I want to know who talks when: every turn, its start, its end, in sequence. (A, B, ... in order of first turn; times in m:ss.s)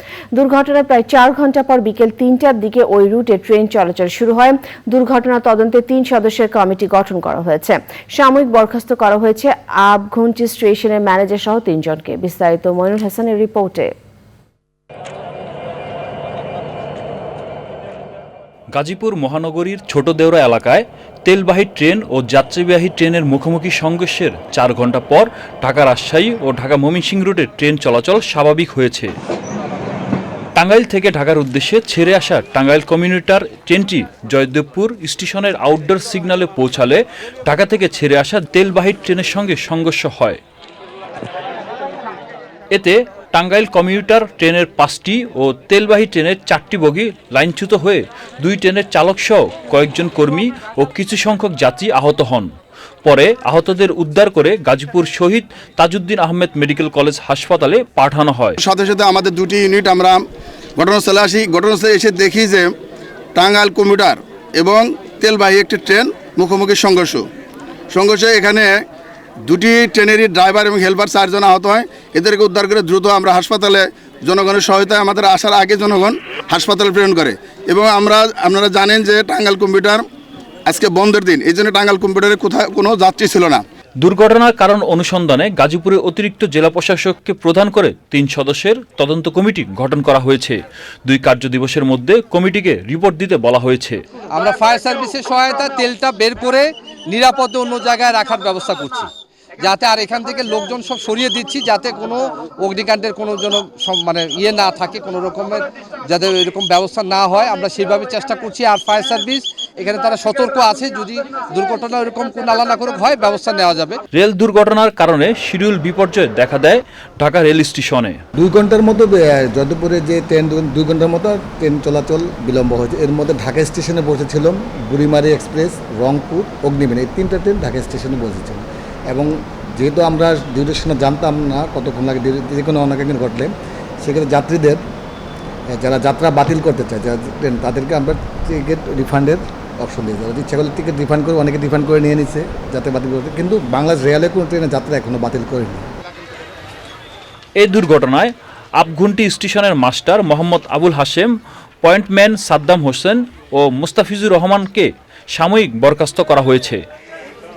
0:00.3-0:13.9 A
0:18.7-0:29.2 B
0:30.6-0:40.4 B
0:42.7-0:52.5 B
0:53.0-0:58.6 B
0:58.6-1:00.2 C
1:00.8-1:02.7 C
1:03.3-1:07.2 C
1:07.9-1:08.8 C
1:09.5-1:20.0 C
1:20.7-1:23.6 C
1:24.0-1:34.0 B
1:34.3-1:39.1 D
1:39.6-1:54.0 D
1:54.1-1:58.2 B
1:58.4-2:14.8 E
2:15.7-2:25.9 E
2:27.6-2:31.3 B
2:31.8-2:36.8 B